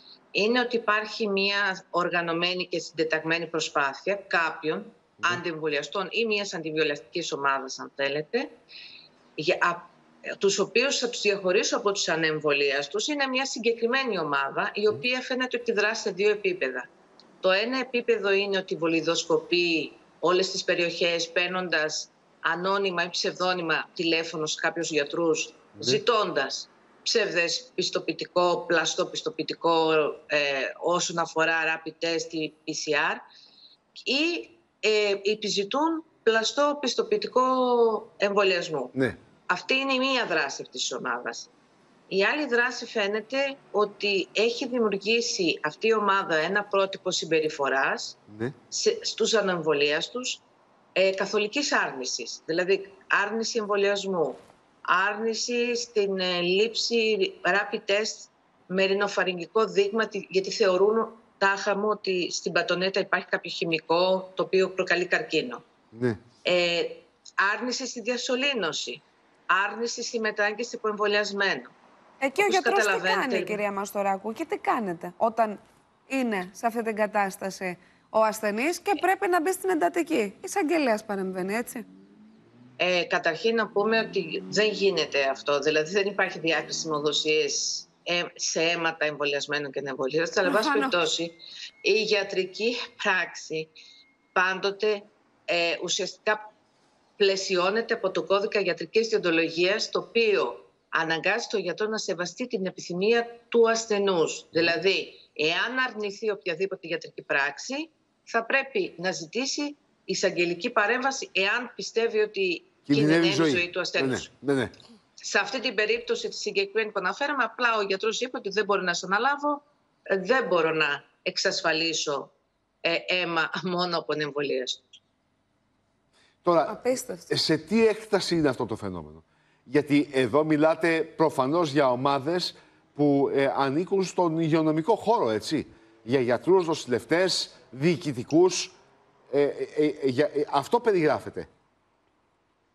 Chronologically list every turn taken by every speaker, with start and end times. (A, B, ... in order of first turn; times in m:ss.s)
0:00.3-0:08.5 A
0:09.4-0:16.9 A
0:17.4-0:33.2 A
0:34.0-0:39.0 A
0:39.5-0:41.5 A
0:42.1-0:48.2 A
0:48.3-0:48.5 B
0:48.7-0:50.4 A
0:50.9-1:05.6 A
1:05.9-1:06.2 B
1:06.4-1:11.7 A
1:12.2-1:21.8 C
1:12.4-1:13.6 A
1:22.8-1:33.7 A
1:30.4-1:31.0 C
1:34.3-1:36.5 A
1:37.2-1:54.3 A
1:52.9-1:54.7 B
1:55.2-2:05.0 A
2:06.4-2:18.7 B
2:06.7-2:07.3 C
2:19.3-2:21.5 B